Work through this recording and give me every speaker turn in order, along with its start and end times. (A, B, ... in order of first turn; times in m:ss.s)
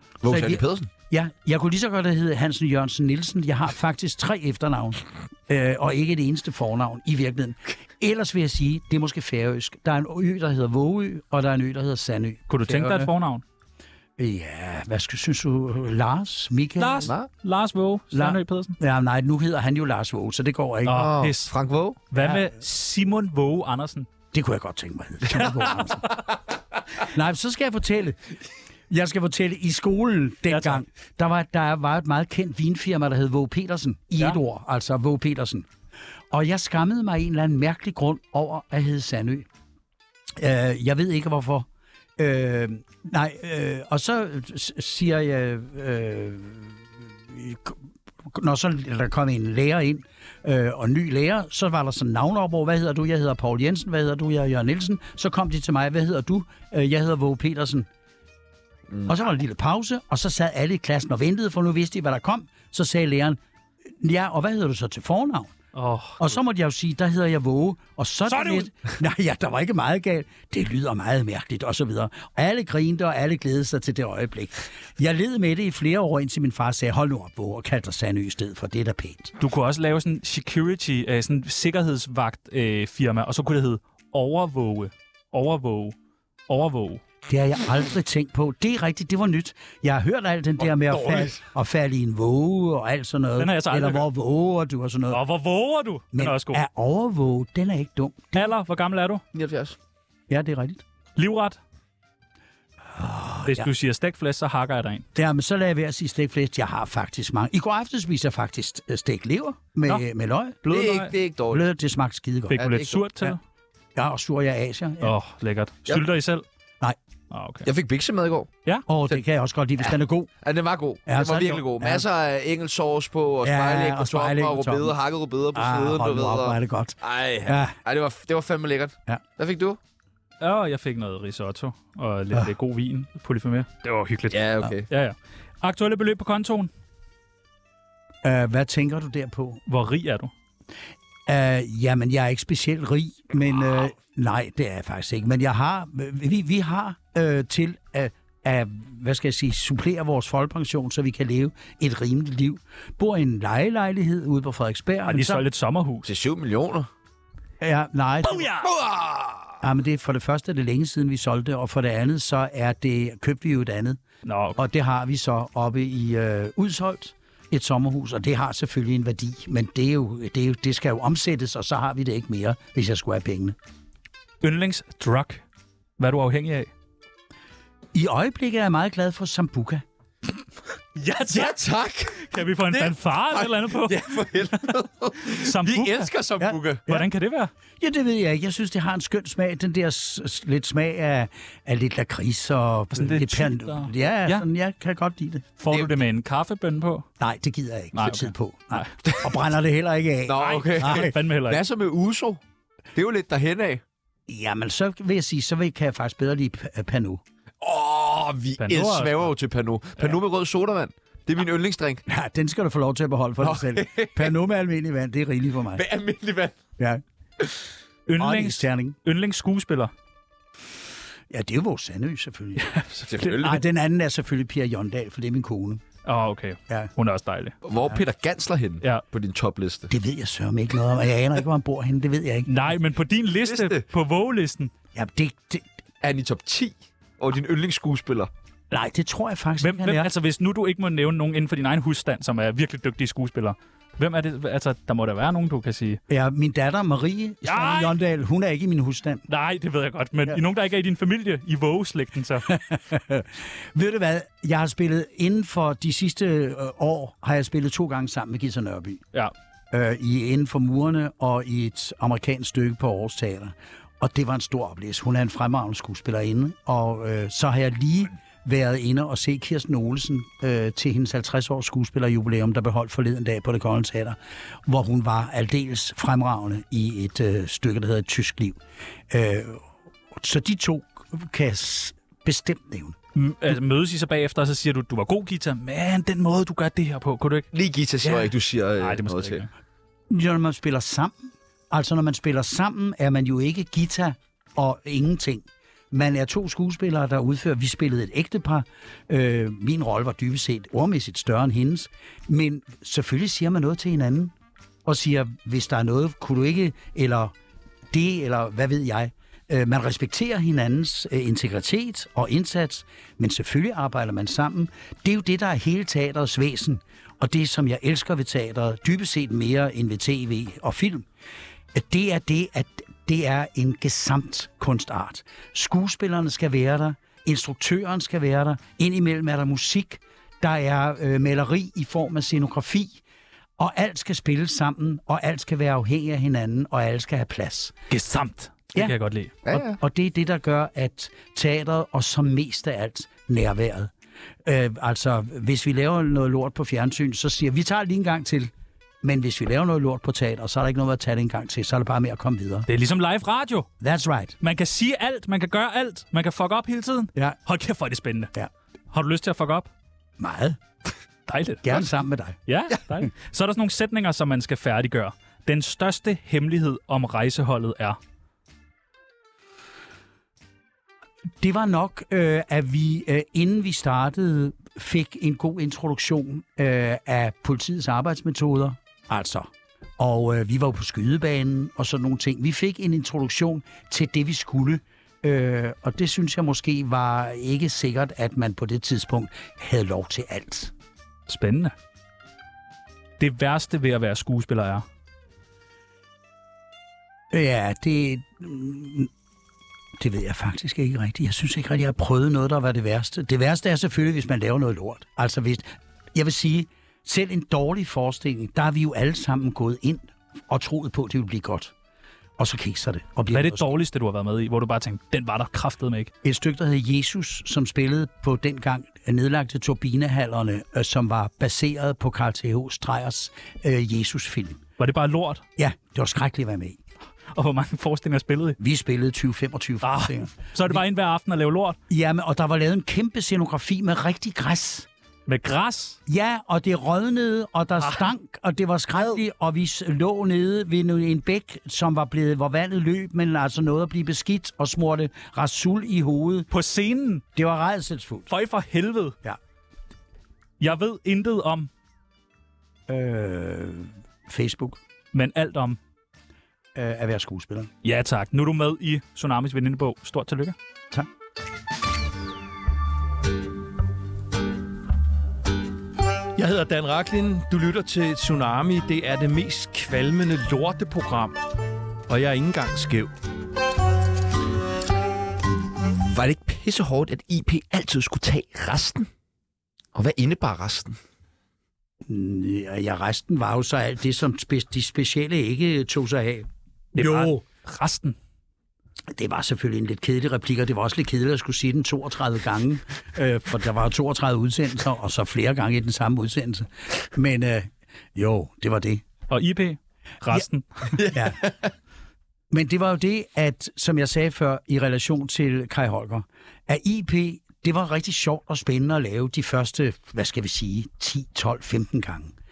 0:00.2-0:00.9 A
0:00.3-0:13.1 B
0:12.5-0:13.4 C
0:14.2-0:17.1 B
0:16.8-0:18.8 C
0:18.1-0:21.0 B
0:20.9-0:21.5 C
0:20.9-0:22.0 A
0:22.1-0:24.1 C
0:22.2-0:22.4 B
0:24.3-0:26.2 B
0:27.0-0:28.2 B
0:28.9-0:35.7 B
0:30.5-0:30.8 C
0:36.3-0:39.5 B
0:40.4-0:41.7 B
0:42.2-0:46.8 B
0:47.3-0:47.8 B
0:48.3-0:57.9 B
0:59.1-1:03.4 B
1:04.0-1:05.5 B
1:05.8-1:06.3 C
1:06.2-1:19.3 B
1:08.3-1:08.7 C
1:19.4-1:25.9 C
1:26.5-1:27.0 C
1:27.3-1:35.2 B
1:30.6-1:31.4 A
1:33.4-1:34.1 C
1:35.1-1:36.6 C
1:36.1-1:38.4 B
1:38.3-1:39.2 C
1:39.3-1:39.8 A
1:40.3-1:40.8 B
1:41.2-1:41.6 C
1:43.0-1:43.7 B
1:43.4-1:45.1 C
1:45.1-1:50.6 B
1:50.6-1:51.1 C
1:50.7-1:51.6 A
1:51.5-1:52.6 B
1:52.5-1:53.4 C
1:52.5-1:53.1 A
1:54.0-1:55.1 B
1:55.0-1:56.4 C
1:57.3-1:57.7 C
1:57.6-1:58.5 A
1:58.9-2:00.3 B
2:00.4-2:09.8 A
2:01.1-2:02.0 B
2:03.4-2:04.9 B
2:05.5-2:07.8 B
2:10.4-2:16.7 C
2:14.3-2:14.9 A
2:18.2-2:19.6 B
2:19.7-2:20.3 C
2:21.3-2:35.4 B
2:35.1-2:36.1 C
2:36.0-2:36.9 A
2:37.6-2:38.5 B
2:38.2-2:38.7 C
2:38.6-2:39.6 A
2:39.6-2:44.0 B
2:44.2-2:44.6 C
2:44.6-2:53.6 B
2:54.4-2:55.4 C
2:56.0-2:56.7 C
2:57.9-2:59.8 B
3:01.0-3:01.6 C
3:01.3-3:06.8 A
3:02.2-3:04.4 C
3:05.3-3:06.1 C
3:06.4-3:07.1 B
3:06.9-3:07.5 C
3:07.8-3:15.6 B
3:12.9-3:14.4 C
3:15.6-3:17.1 C
3:17.2-3:21.1 B
3:17.9-3:18.9 C
3:20.3-3:22.4 A
3:20.4-3:21.6 C
3:22.9-3:23.8 A
3:24.3-3:27.2 B
3:27.6-3:32.0 A
3:28.6-3:29.3 C
3:32.1-3:35.8 B
3:33.4-3:34.3 A
3:35.7-3:36.6 A
3:38.1-3:39.9 C
3:38.2-3:39.0 B
3:41.3-3:42.8 B
3:42.6-3:43.4 C
3:43.1-3:43.6 A
3:43.4-3:45.8 B
3:46.1-3:47.6 C
3:47.6-3:49.9 A
3:49.9-3:52.5 B
3:52.5-3:54.7 C
3:53.4-3:53.8 A
3:54.9-3:55.6 B
3:56.0-3:58.3 A
3:58.7-4:00.1 B
3:59.6-4:06.0 C
4:06.1-4:09.2 B
4:07.4-4:08.0 C
4:09.3-4:12.5 C
4:12.4-4:19.0 B
4:19.7-4:34.2 B
4:34.7-4:38.6 B
4:39.1-4:43.0 B
4:43.1-4:47.5 C
4:47.5-4:49.5 A
4:48.0-4:49.5 C
4:50.1-4:51.2 B
4:51.7-5:04.3 B
5:04.8-5:07.3 B
5:07.9-5:21.1 B
5:21.7-5:33.0 B
5:33.6-5:37.8 B
5:37.9-5:39.4 C
5:39.4-5:39.8 A
5:39.5-5:43.9 B
5:44.4-5:48.5 B
5:49.0-5:52.7 B
5:52.7-5:53.7 C
5:53.8-5:54.4 B
5:54.4-5:58.3 C
5:58.9-5:59.7 C
6:00.2-6:00.6 B
6:01.3-6:01.9 C
6:01.6-6:02.4 B
6:02.5-6:08.0 C
6:11.4-6:30.7 B
6:31.3-6:31.7 C
6:33.2-6:34.8 C
6:37.3-6:39.1 B
6:40.0-6:51.7 B
6:52.4-6:53.7 B
6:53.3-6:56.1 C
6:56.2-7:04.6 B
7:04.8-7:05.4 C
7:05.6-7:06.8 B
7:07.4-7:08.6 C
7:08.6-7:10.8 B
7:09.8-7:11.8 C
7:11.9-7:14.9 B
7:15.3-7:16.0 C
7:16.1-7:26.5 B
7:17.8-7:18.1 C
7:26.5-7:27.2 C
7:27.4-7:28.3 B
7:28.3-7:29.2 C
7:30.6-7:31.7 C
7:32.9-7:34.8 B
7:35.1-7:35.8 C
7:36.8-7:37.7 B
7:37.8-7:40.6 C
7:46.4-7:51.4 D
7:52.1-7:53.1 D
7:55.8-7:59.1 A
7:59.9-8:01.0 A
8:02.1-8:07.4 B
8:06.9-8:08.2 C
8:09.1-8:19.0 B
8:19.3-8:21.0 C
8:21.0-8:21.7 A
8:21.1-8:21.4 B
8:22.5-8:32.3 B